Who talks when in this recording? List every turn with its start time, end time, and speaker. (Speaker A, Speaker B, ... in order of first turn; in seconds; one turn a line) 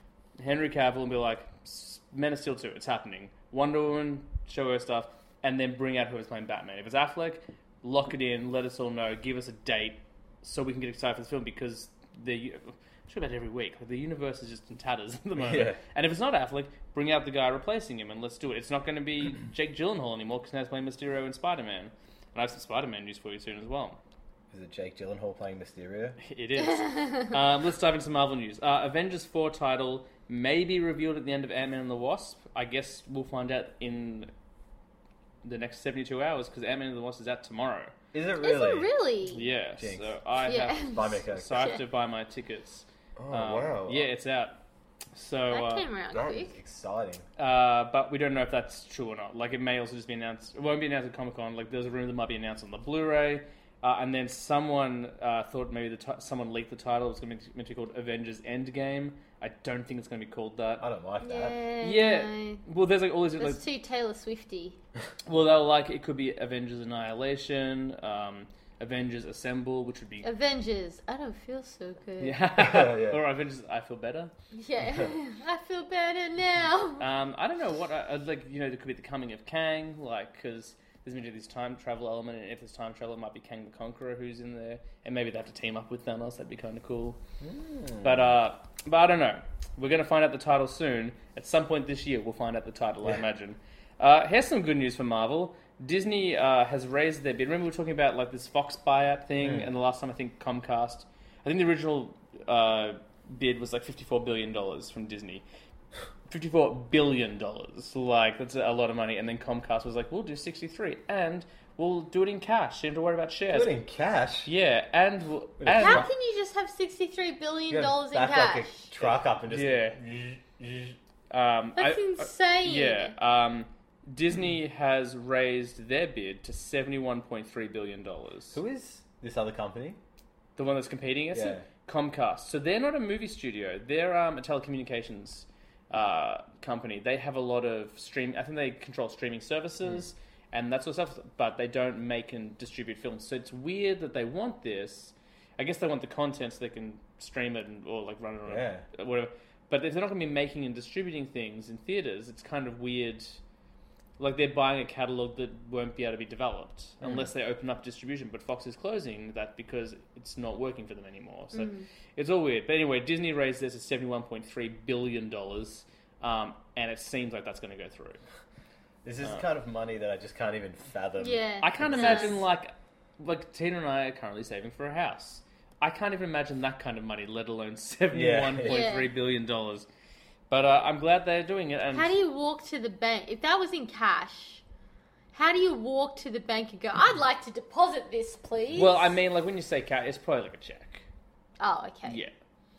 Speaker A: 0.4-24.0
Speaker B: 15.4-15.8
Speaker B: 24.5-26.2
Speaker A: 26.2-34.3
Speaker A: 35.4-37.9
Speaker B: 38.1-38.9
Speaker C: 38.4-39.4
Speaker A: 39.3-44.6
Speaker B: 39.8-40.1
Speaker C: 40.4-41.8
Speaker B: 40.9-41.6
Speaker B: 43.2-44.1
Speaker A: 45.1-45.9
Speaker C: 45.5-46.5
Speaker B: 46.1-47.2
Speaker A: 47.4-60.9
Speaker B: 60.8-61.6
Speaker C: 61.2-62.6
Speaker A: 61.8-63.6
Speaker C: 63.4-64.8
Speaker A: 65.2-70.3
Speaker C: 70.2-72.3
Speaker A: 72.2-74.3
Speaker B: 72.5-73.2
Speaker C: 74.5-77.0
Speaker A: 77.0-87.2
Speaker B: 87.4-88.3
Speaker A: 88.0-105.4
Speaker B: 99.4-99.7
Speaker A: 106.3-113.7
Speaker B: 113.5-114.5
Speaker A: 114.5-116.1
Speaker B: 115.6-116.1
Speaker C: 115.7-118.9
Speaker B: 117.7-121.0
Speaker A: 119.5-120.0
Speaker A: 121.3-128.6
Speaker C: 121.8-123.1
Speaker B: 128.5-130.0
Speaker A: 130.6-153.4
Speaker B: 131.3-131.7
Speaker B: 148.4-148.8
Speaker A: 154.2-168.2
Speaker B: 157.0-157.3
Speaker C: 161.5-161.9
Speaker B: 169.0-172.3
Speaker C: 171.2-172.3
Speaker A: 171.6-179.9
Speaker B: 178.1-178.9
Speaker C: 178.7-179.1
Speaker A: 180.5-182.2
Speaker C: 181.9-184.6
Speaker C: 185.3-189.0
Speaker A: 188.7-191.1
Speaker C: 191.6-192.2
Speaker A: 192.0-192.3